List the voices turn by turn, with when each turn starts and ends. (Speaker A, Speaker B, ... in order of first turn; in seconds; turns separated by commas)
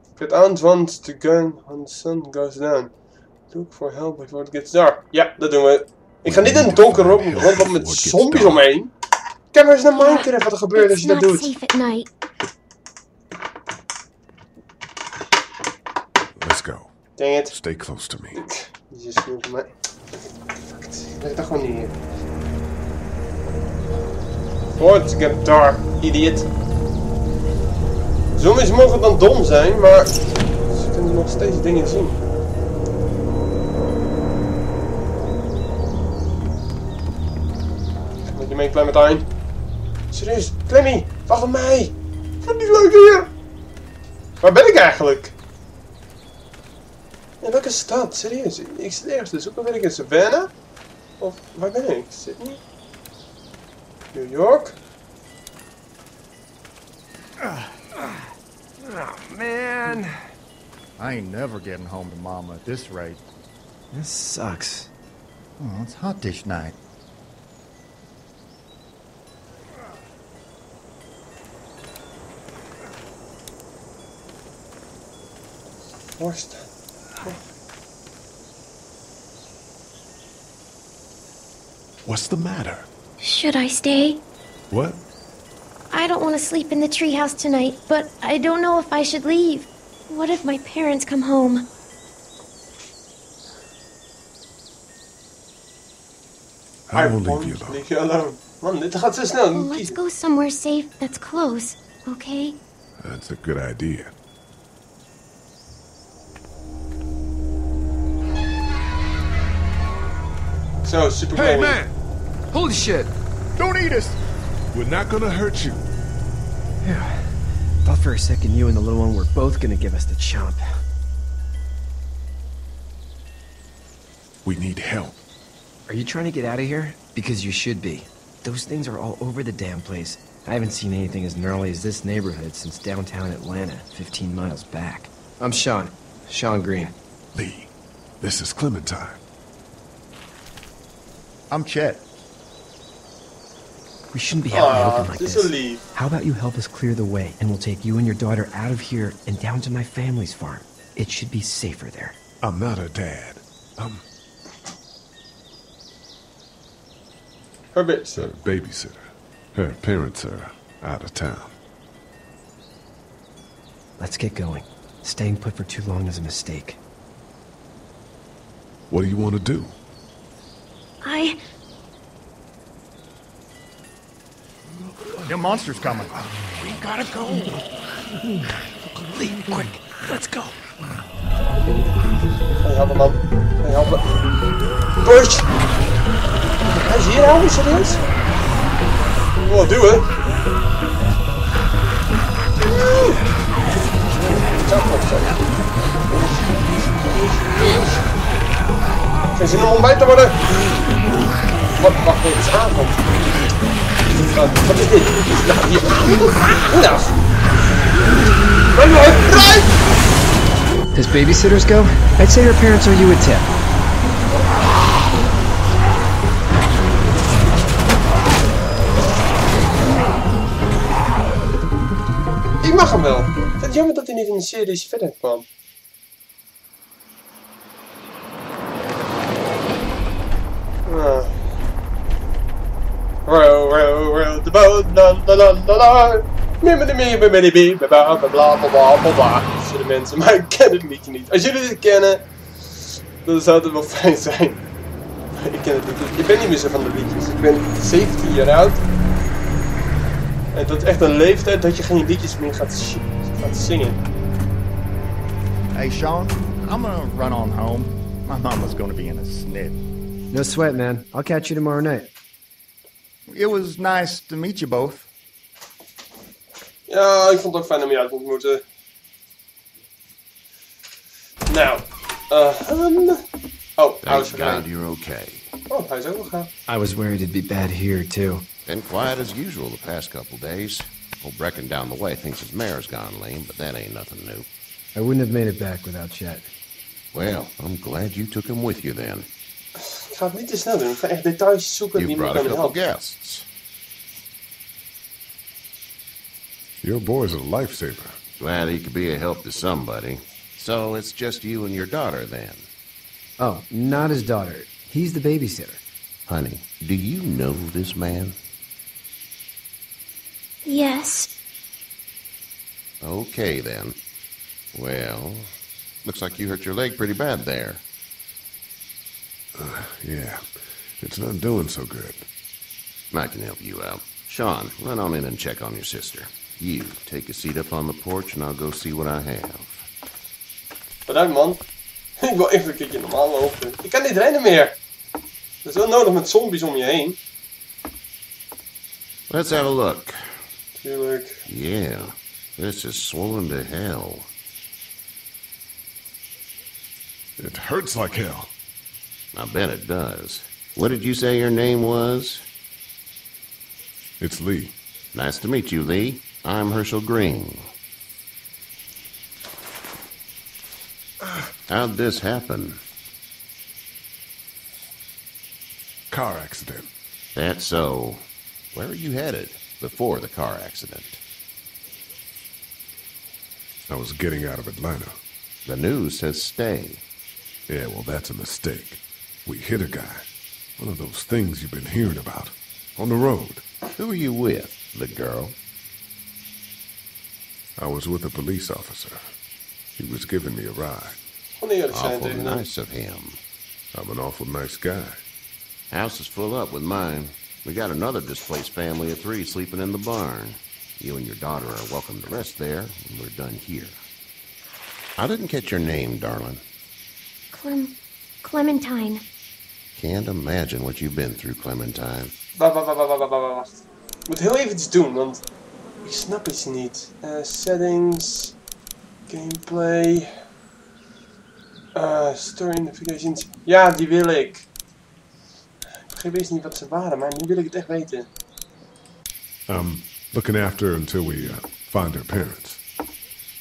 Speaker A: 0.2-2.9, Speaker A: 3.5-8.9, Speaker B: 6.2-8.7, Speaker A: 9.5-11.5, Speaker C: 9.9-12.1, Speaker B: 16.4-16.9, Speaker A: 17.2-17.6, Speaker B: 17.5-18.4, Speaker A: 18.4-19.7, Speaker A: 20.6-22.0, Speaker A: 24.8-26.5, Speaker A: 28.4-32.2, Speaker A: 38.3-39.3, Speaker A: 40.1-43.3, Speaker A: 44.4-45.4, Speaker A: 47.4-50.5, Speaker A: 51.2-52.6, Speaker A: 54.1-54.8, Speaker D: 57.4-58.3, Speaker D: 58.8-60.1, Speaker E: 61.0-63.2, Speaker D: 63.9-64.9, Speaker E: 65.6-66.8, Speaker A: 76.2-76.7, Speaker B: 82.0-82.9, Speaker C: 83.2-84.2, Speaker B: 84.7-85.0, Speaker C: 85.9-91.7, Speaker B: 96.9-97.8, Speaker A: 96.9-100.0, Speaker C: 99.5-102.6, Speaker B: 103.0-104.1, Speaker A: 110.8-111.8, Speaker B: 111.3-112.0, Speaker D: 112.5-113.1, Speaker B: 113.6-114.2, Speaker B: 114.7-115.9, Speaker D: 116.8-120.7, Speaker B: 124.4-125.2, Speaker D: 125.9-137.0, Speaker B: 137.3-139.2, Speaker E: 141.5-142.1, Speaker D: 144.1-152.2, Speaker A: 144.5-145.8, Speaker B: 152.4-154.0, Speaker A: 157.7-158.3, Speaker B: 158.2-161.6, Speaker D: 164.0-166.8, Speaker B: 168.9-169.8, Speaker C: 171.0-171.4, Speaker E: 175.3-176.2, Speaker D: 176.6-177.4, Speaker D: 178.9-180.4, Speaker A: 182.6-184.1, Speaker A: 185.0-185.5, Speaker A: 186.7-188.0, Speaker A: 189.4-190.1, Speaker A: 192.6-193.2, Speaker A: 194.2-195.4, Speaker A: 197.0-198.0, Speaker A: 199.3-200.4, Speaker A: 201.8-203.0, Speaker A: 204.3-207.2, Speaker A: 208.8-209.7, Speaker D: 210.9-213.6, Speaker A: 222.6-225.4, Speaker A: 230.9-231.5, Speaker A: 233.3-244.6, Speaker A: 245.3-248.8, Speaker A: 250.5-254.0, Speaker E: 255.7-259.8, Speaker D: 260.3-262.1, Speaker E: 263.3-265.1, Speaker A: 266.9-268.6, Speaker A: 271.5-273.2, Speaker A: 273.8-274.5, Speaker F: 274.0-275.5, Speaker A: 275.7-276.5, Speaker D: 276.7-278.5, Speaker F: 278.7-284.5, Speaker D: 284.9-286.5, Speaker F: 287.1-289.3, Speaker A: 289.8-292.5, Speaker F: 292.0-293.5, Speaker B: 296.8-298.2, Speaker F: 298.4-302.7, Speaker D: 303.4-305.8, Speaker F: 306.3-308.4, Speaker C: 310.6-311.3, Speaker F: 313.0-314.0, Speaker F: 314.7-315.5, Speaker F: 316.1-317.8, Speaker B: 319.6-322.3, Speaker F: 323.1-329.9, Speaker A: 331.1-331.6, Speaker A: 332.2-334.8, Speaker A: 335.6-337.2, Speaker F: 339.3-340.2, Speaker A: 340.8-341.4, Speaker F: 341.5-344.3, Speaker B: 347.4-348.5, Speaker F: 349.3-352.4, Speaker B: 354.2-354.8, Speaker F: 355.1-357.6, Speaker F: 361.7-362.8, Speaker B: 366.1-366.9, Speaker F: 367.4-371.2, Speaker B: 373.9-375.2, Speaker F: 375.7-377.0, Speaker B: 377.7-380.3, Speaker B: 380.8-383.6, Speaker F: 384.0-385.6, Speaker B: 387.8-389.2, Speaker B: 390.0-391.2, Speaker A: 391.6-392.6, Speaker F: 391.9-393.4, Speaker B: 393.9-395.2, Speaker F: 395.9-404.0, Speaker F: 405.2-406.6, Speaker C: 407.5-409.2, Speaker F: 410.0-412.3, Speaker A: 412.6-413.8, Speaker A: 414.3-415.4, Speaker A: 416.0-418.6, Speaker A: 419.3-420.3, Speaker A: 421.9-424.7, Speaker A: 426.1-428.3, Speaker B: 429.7-432.8